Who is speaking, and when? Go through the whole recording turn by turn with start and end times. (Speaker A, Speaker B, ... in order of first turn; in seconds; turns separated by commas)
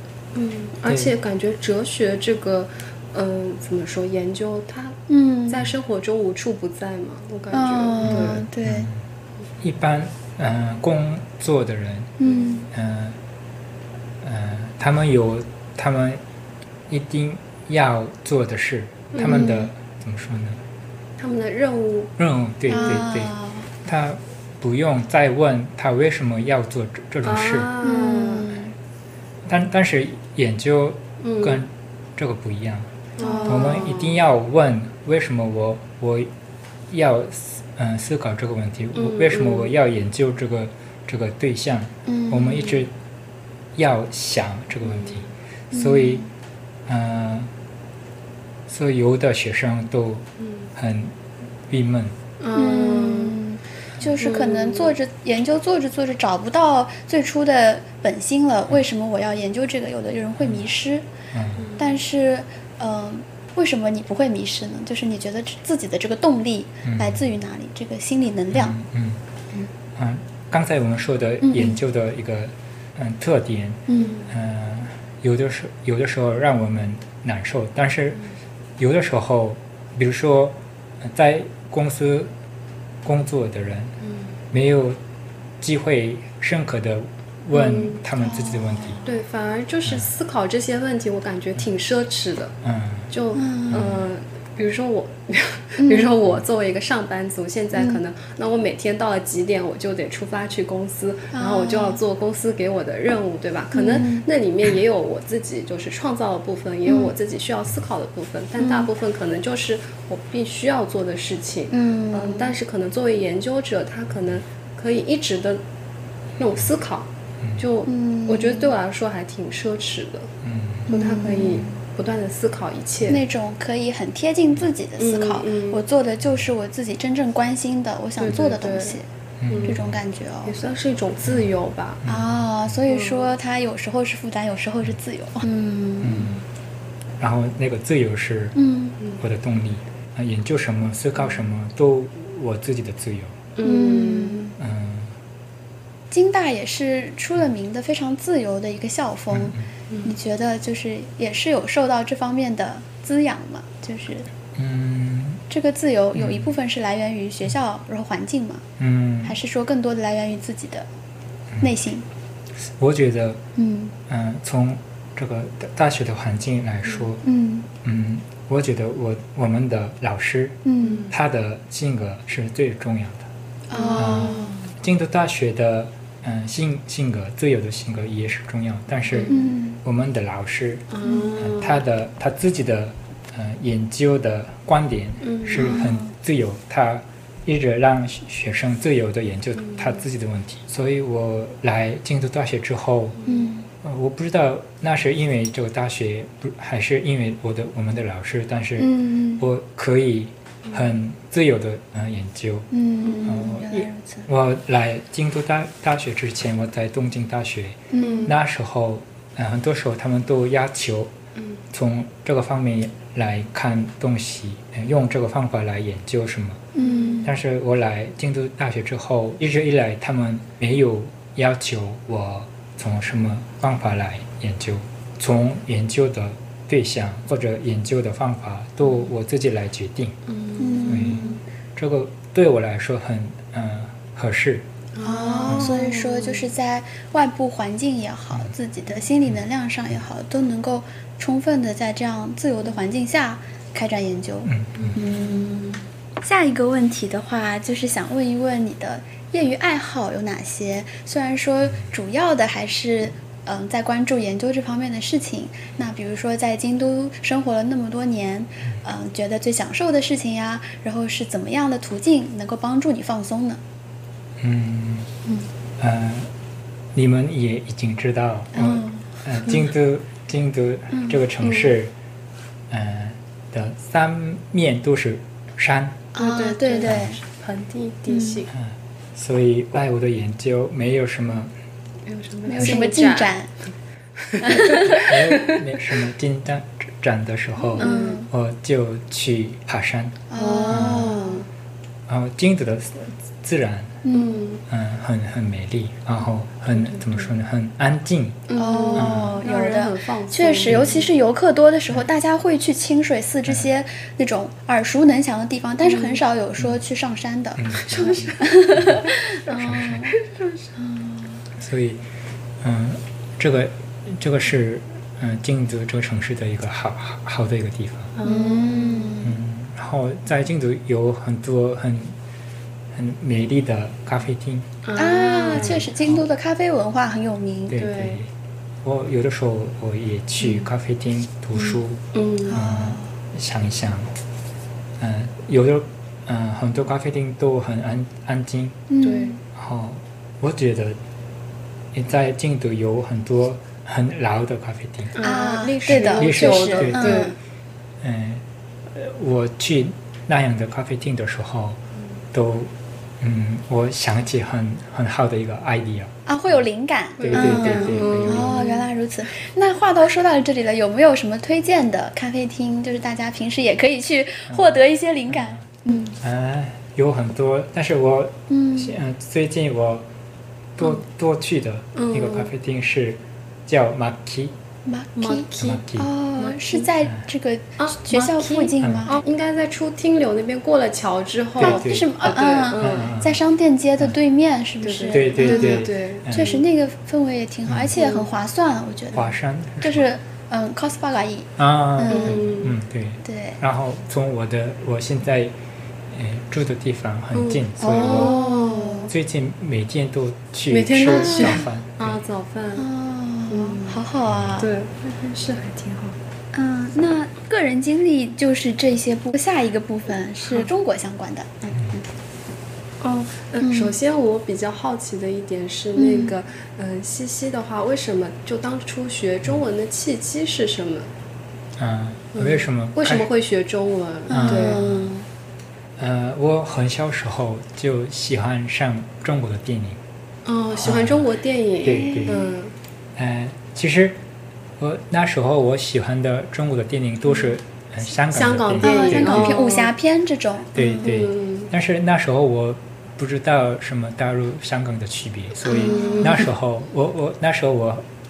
Speaker A: 0.3-8.4, Speaker B: 0.9-1.1, Speaker C: 5.1-5.6, Speaker C: 7.5-8.9, Speaker B: 8.0-9.0, Speaker B: 9.6-12.1, Speaker C: 12.2-12.7, Speaker B: 12.7-13.2, Speaker B: 14.2-16.2, Speaker B: 16.9-20.6, Speaker A: 19.1-19.6, Speaker C: 19.2-19.7, Speaker A: 21.2-22.1, Speaker B: 22.2-23.3, Speaker C: 22.7-23.7, Speaker A: 22.8-23.0, Speaker B: 23.9-27.7, Speaker A: 27.2-28.5, Speaker C: 27.8-28.7, Speaker B: 29.5-32.9, Speaker A: 31.2-31.6, Speaker A: 33.2-34.2, Speaker C: 33.2-33.8, Speaker B: 33.5-36.3, Speaker B: 36.9-42.9, Speaker A: 39.0-39.7, Speaker C: 42.1-42.7, Speaker B: 43.8-46.2, Speaker A: 44.9-45.3, Speaker C: 45.7-46.3, Speaker B: 46.9-47.5, Speaker B: 48.7-51.1, Speaker B: 51.7-52.2, Speaker A: 52.4-53.4, Speaker C: 52.5-61.1, Speaker A: 54.2-54.9, Speaker B: 60.4-60.7, Speaker B: 61.3-61.7, Speaker A: 61.6-61.9, Speaker C: 61.8-68.8, Speaker B: 66.8-67.2, Speaker B: 68.5-69.2, Speaker B: 70.0-78.2, Speaker C: 71.4-71.8, Speaker C: 73.9-74.2, Speaker A: 74.0-74.3, Speaker B: 78.8-82.3, Speaker B: 83.0-83.9, Speaker A: 84.0-84.3, Speaker B: 84.5-85.0, Speaker B: 85.6-89.0, Speaker A: 87.5-88.0, Speaker C: 88.2-89.0, Speaker A: 89.0-92.6, Speaker B: 89.8-90.1, Speaker B: 92.6-93.1, Speaker A: 93.1-115.6, Speaker C: 93.3-93.8, Speaker B: 93.7-94.0, Speaker C: 95.8-96.1, Speaker C: 97.8-98.0, Speaker C: 101.3-102.0, Speaker C: 103.7-104.2, Speaker C: 106.9-107.1, Speaker C: 108.6-108.9, Speaker C: 111.7-112.5, Speaker A: 116.4-120.3, Speaker C: 117.8-118.7, Speaker B: 120.4-120.9, Speaker A: 120.9-123.2, Speaker C: 120.9-121.8, Speaker C: 123.0-129.1, Speaker A: 125.0-125.8, Speaker A: 128.2-129.8, Speaker B: 129.4-130.0, Speaker C: 129.6-130.8, Speaker A: 130.5-132.0, Speaker B: 132.0-132.7, Speaker C: 132.1-136.4, Speaker A: 132.9-133.3, Speaker B: 136.0-136.4, Speaker B: 137.2-138.6, Speaker C: 138.6-139.0, Speaker B: 139.2-143.4, Speaker A: 143.6-144.5, Speaker C: 143.6-144.6, Speaker B: 144.6-145.2, Speaker C: 146.1-154.3, Speaker B: 149.3-149.7, Speaker B: 154.6-155.4, Speaker C: 155.5-158.7, Speaker B: 156.2-156.5, Speaker B: 158.8-159.4, Speaker C: 159.2-160.9, Speaker C: 161.6-162.1, Speaker B: 162.7-163.4, Speaker C: 163.6-163.9, Speaker B: 164.1-167.2, Speaker C: 167.2-167.7, Speaker B: 167.8-173.3, Speaker C: 170.7-171.1, Speaker A: 173.7-174.6, Speaker C: 173.7-174.6, Speaker B: 174.0-193.2, Speaker A: 179.1-179.4, Speaker C: 179.3-179.8, Speaker A: 180.9-181.8, Speaker C: 181.0-181.3, Speaker A: 185.2-185.9, Speaker C: 185.6-186.1, Speaker A: 189.6-189.9, Speaker C: 193.3-193.7, Speaker B: 193.8-211.1, Speaker C: 198.8-199.5, Speaker C: 202.7-204.3, Speaker C: 207.9-208.3, Speaker A: 208.0-208.4, Speaker B: 211.7-216.6, Speaker C: 216.8-217.3, Speaker A: 216.8-217.3, Speaker B: 217.2-230.2, Speaker A: 230.3-231.4, Speaker C: 230.6-231.4, Speaker B: 230.8-231.2, Speaker B: 231.8-234.7, Speaker A: 234.9-236.5, Speaker C: 235.0-263.6, Speaker B: 244.5-245.0, Speaker B: 264.4-265.1, Speaker B: 265.8-266.3, Speaker B: 266.9-271.9, Speaker C: 268.6-269.6, Speaker C: 270.9-271.2, Speaker A: 271.4-271.8, Speaker B: 272.7-276.0, Speaker C: 276.1-277.2, Speaker A: 276.2-278.5, Speaker B: 276.9-277.1, Speaker C: 278.1-278.4, Speaker B: 278.5-281.5, Speaker A: 282.1-283.3, Speaker C: 282.5-283.5, Speaker A: 284.2-285.6, Speaker C: 284.4-285.0, Speaker B: 284.9-291.1, Speaker A: 287.8-288.2, Speaker C: 287.8-288.3, Speaker C: 290.3-291.4, Speaker A: 290.4-291.5, Speaker B: 292.1-294.0, Speaker C: 294.1-294.4, Speaker A: 294.1-294.6, Speaker B: 294.7-298.4, Speaker A: 296.8-297.3, Speaker A: 298.5-301.1, Speaker C: 298.6-310.1, Speaker B: 299.0-299.4, Speaker A: 305.8-306.2, Speaker B: 307.6-310.1, Speaker A: 309.5-310.7, Speaker C: 310.8-311.1, Speaker B: 311.6-312.0, Speaker B: 312.6-318.1, Speaker A: 318.1-319.1, Speaker C: 318.2-319.4, Speaker B: 319.2-322.1, Speaker B: 322.9-324.7, Speaker A: 324.8-325.8, Speaker C: 324.9-327.9, Speaker B: 325.5-326.2, Speaker B: 327.7-328.3, Speaker A: 327.7-328.2, Speaker B: 328.8-332.0, Speaker A: 330.4-330.7, Speaker A: 331.6-332.6, Speaker C: 332.5-333.1, Speaker B: 332.5-334.1, Speaker B: 335.0-338.8, Speaker C: 338.9-339.4, Speaker A: 339.0-339.4, Speaker B: 339.5-341.0, Speaker B: 341.9-345.2, Speaker A: 345.1-347.4, Speaker C: 345.2-347.3, Speaker B: 345.9-347.3, Speaker B: 348.0-351.8, Speaker B: 352.3-356.6, Speaker C: 356.3-366.1, Speaker A: 357.2-358.9, Speaker B: 357.2-358.7, Speaker B: 364.5-365.7, Speaker B: 366.2-370.1, Speaker C: 368.5-368.9, Speaker B: 370.8-374.5, Speaker A: 371.9-372.5, Speaker C: 374.9-379.2, Speaker A: 375.2-375.8, Speaker B: 375.6-376.1, Speaker A: 376.4-376.9, Speaker A: 377.8-383.1, Speaker B: 378.8-379.1, Speaker C: 381.6-389.3, Speaker B: 381.6-382.2, Speaker B: 382.8-383.4, Speaker A: 384.8-386.6, Speaker B: 385.1-386.6, Speaker B: 387.7-387.9, Speaker A: 388.0-388.3, Speaker B: 389.1-390.1, Speaker C: 389.8-392.4, Speaker B: 391.6-395.6, Speaker A: 392.1-392.8, Speaker C: 393.2-393.6, Speaker B: 396.1-398.4, Speaker A: 397.4-399.1, Speaker C: 397.8-399.1, Speaker B: 399.1-402.2, Speaker A: 400.7-402.9, Speaker C: 401.1-401.6, Speaker C: 402.8-404.7, Speaker A: 403.5-404.0, Speaker B: 404.2-404.6, Speaker A: 404.6-406.2, Speaker C: 406.5-412.0, Speaker B: 411.7-412.0, Speaker A: 413.0-421.1, Speaker C: 413.6-413.9, Speaker C: 416.0-416.3, Speaker B: 421.8-423.3, Speaker A: 422.3-424.9, Speaker C: 424.3-425.3, Speaker B: 424.3-425.0, Speaker B: 426.0-430.0, Speaker A: 430.4-432.7, Speaker B: 430.8-431.3, Speaker B: 431.8-432.5, Speaker C: 431.9-432.4, Speaker B: 433.2-434.2, Speaker B: 434.8-439.6, Speaker A: 438.3-439.9, Speaker C: 438.8-441.1, Speaker B: 440.8-448.1, Speaker A: 441.0-441.7, Speaker C: 445.6-446.5, Speaker A: 445.6-446.5